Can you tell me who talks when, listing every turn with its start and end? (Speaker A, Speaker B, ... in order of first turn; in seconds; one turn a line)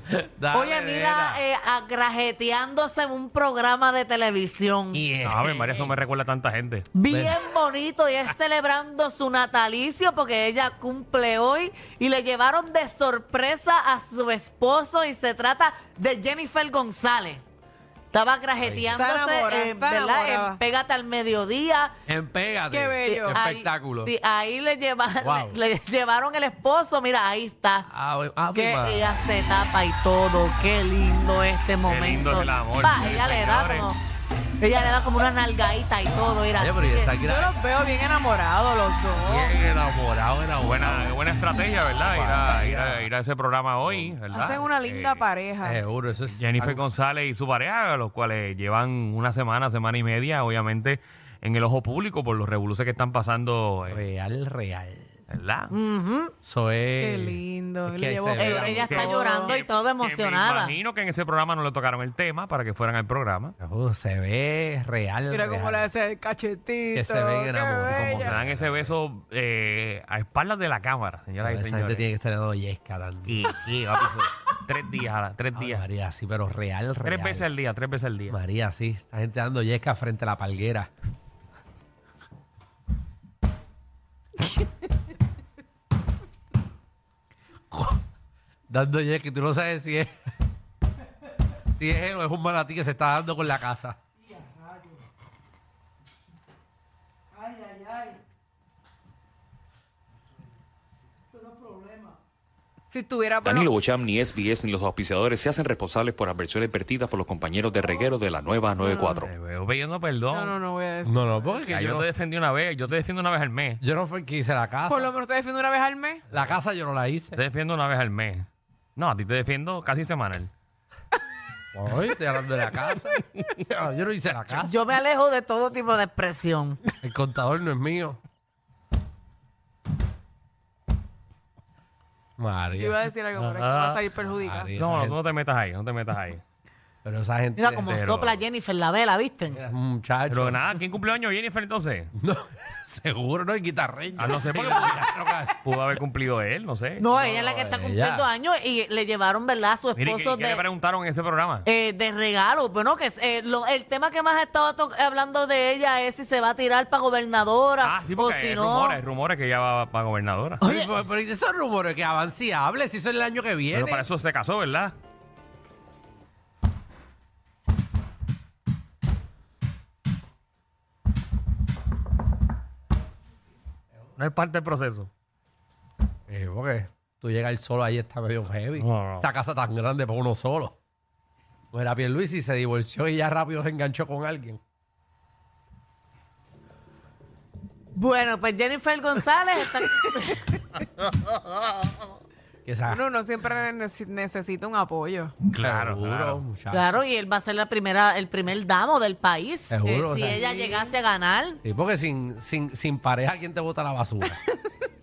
Speaker A: 0.1-1.4
Speaker B: 0.5-5.0
Speaker A: 4.9-5.9
Speaker C: 5.2-6.9
Speaker B: 6.9-17.4
Speaker A: 7.1-7.4
Speaker B: 18.1-21.9
Speaker A: 18.6-19.0
Speaker D: 18.9-20.6
Speaker A: 22.1-24.1
Speaker D: 22.7-23.4
Speaker B: 23.0-27.9
Speaker A: 25.2-25.6
Speaker A: 27.9-29.1
Speaker B: 28.5-34.0
Speaker C: 31.9-33.9
Speaker B: 34.6-37.1
Speaker A: 36.5-37.6
Speaker D: 37.2-39.5
Speaker A: 39.1-41.2
Speaker C: 40.6-45.2
Speaker A: 42.0-43.1
Speaker A: 43.9-44.2
Speaker D: 44.3-45.8
Speaker A: 45.6-46.8
Speaker C: 46.3-54.0
Speaker A: 53.9-55.1
Speaker C: 55.3-55.7
Speaker B: 55.7-56.3
Speaker A: 56.4-59.1
Speaker D: 57.0-59.5
Speaker B: 58.4-60.8
Speaker C: 58.9-63.5
Speaker A: 63.6-65.9
Speaker D: 65.3-68.4
Speaker A: 66.9-69.0
Speaker C: 67.9-72.1
Speaker A: 71.4-73.4
Speaker C: 73.3-75.8
Speaker A: 75.5-77.5
Speaker C: 77.0-78.4
Speaker A: 78.3-80.9
Speaker A: 88.7-90.1
Speaker A: 91.7-94.0
Speaker D: 102.9-103.8
Speaker E: 103.4-109.3
Speaker D: 108.8-109.2
Speaker C: 109.2-110.5
Speaker D: 110.3-111.5
Speaker A: 111.0-112.1
Speaker C: 111.7-113.8
Speaker A: 113.8-115.1
Speaker D: 114.9-116.2
Speaker A: 116.3-117.4
Speaker C: 117.3-120.5
Speaker A: 121.7-124.8
Speaker B: 124.6-126.8
Speaker A: 127.0-128.2
Speaker A: 132.4-133.0
Speaker D: 132.7-134.7
Speaker C: 133.4-134.0
Speaker A: 134.3-135.2
Speaker C: 134.8-136.4
Speaker A: 137.0-138.4
Speaker B: 137.6-139.6
Speaker A: 139.5-140.6
Speaker C: 140.3-142.1
Speaker A: 142.2-145.6
Speaker C: 144.2-145.0
Speaker C: 145.6-147.1
Speaker B: 147.0-150.6
Speaker A: 147.1-148.3
Speaker C: 149.9-151.7
Speaker B: 151.7-159.0
Speaker C: 157.8-160.6
Speaker B: 160.6-160.9
Speaker A: 160.6-164.1
Speaker C: 163.7-164.9
Speaker C: 174.2-175.1
Speaker A: 176.3-180.8
Speaker C: 178.8-179.3
Speaker A: 181.7-184.6
Speaker B: 187.9-190.4
Speaker A: 192.6-193.0
Speaker D: 192.9-195.3
Speaker C: 195.4-196.4
Speaker A: 195.6-196.9
Speaker B: 196.7-201.6
Speaker A: 199.7-200.5
Speaker D: 200.3-200.9
Speaker A: 201.6-204.4